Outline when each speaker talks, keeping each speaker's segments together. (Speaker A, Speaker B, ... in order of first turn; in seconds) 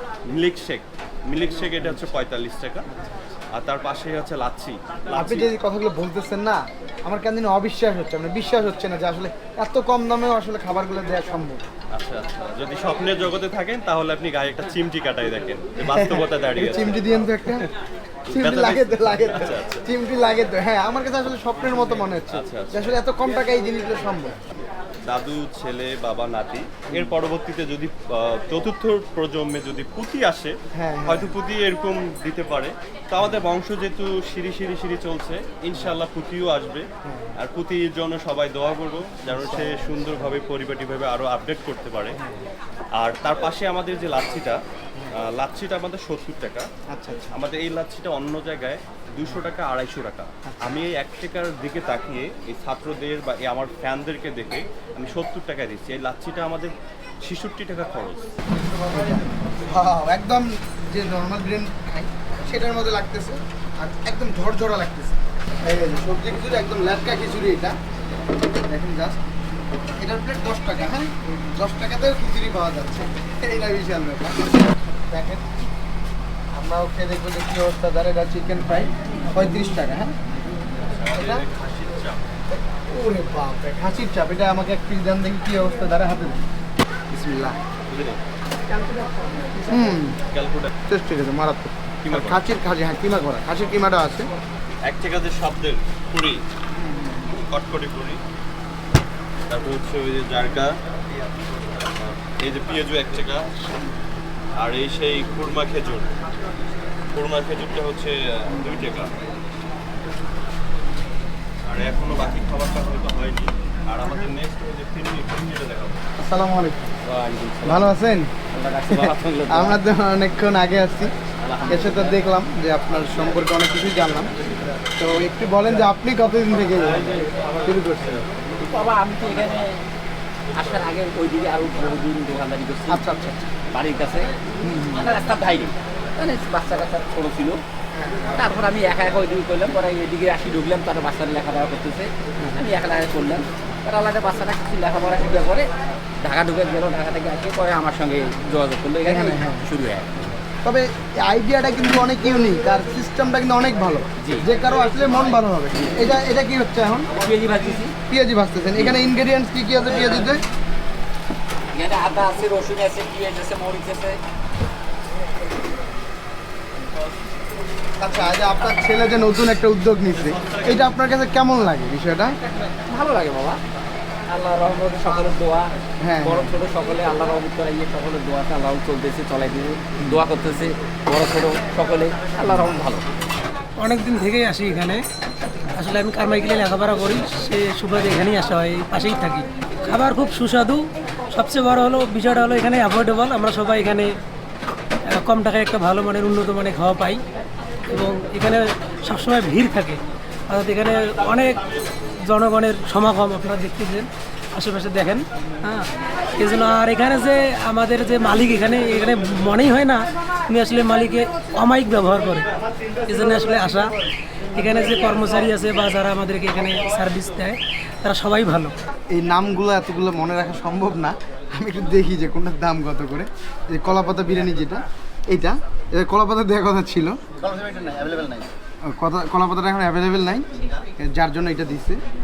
Speaker A: 0.3-2.9, 3.5-5.5, 11.9-17.1, 18.3-19.9, 22.3-22.9, 25.1-30.6, 31.1-42.2, 43.0-46.7, 47.3-58.3, 80.9-82.2, 87.9-88.2, 90.3-90.7, 92.0-92.5, 94.9-96.4, 97.4-98.2, 99.5-100.8, 101.9-103.5, 104.6-106.1, 107.1-109.1, 111.6-116.0
Speaker B: 1.8-2.2, 2.9-3.4, 5.1-11.6, 15.8-17.7, 18.3-24.4, 30.7-31.4, 37.0-37.4, 39.3-40.4, 42.2-42.5, 46.9-47.4, 50.5-50.8, 58.6-67.8, 68.5-69.2, 70.0-75.5, 76.5-80.2, 81.0-81.4, 82.5-86.4, 87.1-87.6, 89.6-90.2, 90.9-94.3, 96.7-97.3, 108.5-108.8, 114.0-114.3, 116.2-116.9, 117.7-118.3, 118.9-121.1, 121.7-124.3, 125.0-128.3, 132.9-133.5, 134.6-135.1, 137.9-138.3, 149.1-149.7, 150.6-157.1, 158.1-160.4, 168.0-172.4, 176.0-176.6, 180.0-180.3, 182.4-182.8, 219.1-227.2, 228.8-232.0
Speaker C: 117.0-117.9, 118.5-119.8, 121.4-122.2, 128.6-129.8, 130.6-133.0, 133.7-134.3, 134.9-137.6, 138.3-145.7, 146.2-150.3, 154.2-154.5, 157.1-158.0, 161.7-164.2, 172.9-173.6, 174.3-175.7, 176.2-183.1, 227.4-228.5
Speaker D: 183.8-185.0, 185.7-194.1, 195.1-197.2, 197.9-201.6, 202.3-212.5, 213.1-213.9, 214.6-218.7